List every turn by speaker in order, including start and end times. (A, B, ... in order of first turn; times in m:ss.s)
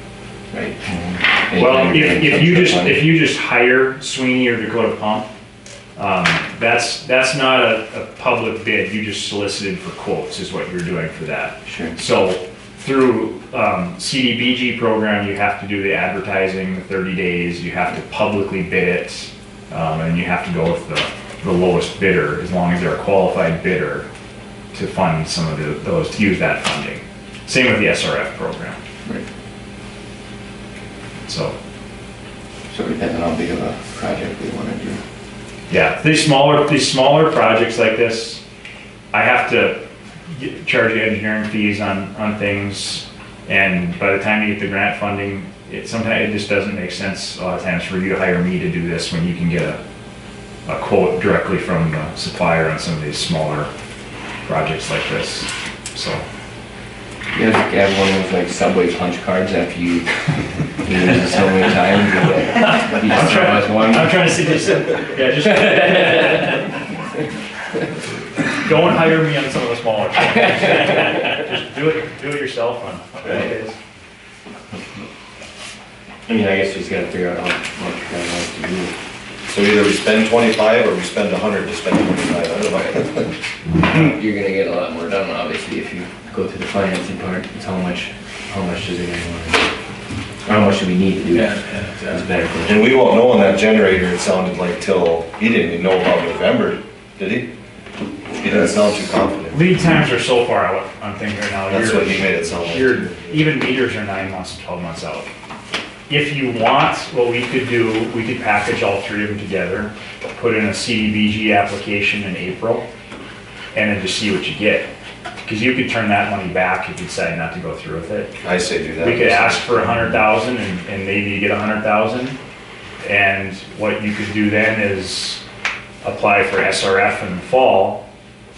0:00.5-0:03.1 A
0:01.5-0:05.3 B
0:06.0-0:24.1 B
0:11.6-0:11.9 A
0:24.7-0:28.8 B
0:31.2-0:31.6 B
0:32.7-0:35.0 A
0:35.7-0:38.4 B
0:39.1-0:49.8 B
0:50.6-0:53.7 B
0:54.4-0:56.2 B
0:57.3-1:00.1 A
1:00.8-1:04.2 A
1:02.6-1:06.6 B
1:05.6-1:06.6 A
1:08.5-1:13.8 B
1:10.4-1:10.8 A
1:16.3-1:18.9 A
1:19.5-1:23.3 C
1:23.8-1:29.7 A
1:30.4-1:32.8 A
1:32.1-1:37.5 C
1:38.4-1:39.6 C
1:39.5-1:45.3 B
1:41.7-1:43.0 C
1:46.1-1:52.8 B
1:53.7-1:54.9 B
1:55.4-1:58.3 B
1:58.4-1:59.7 C
1:59.0-2:02.4 B
2:03.0-2:05.4 B
2:06.0-2:08.0 B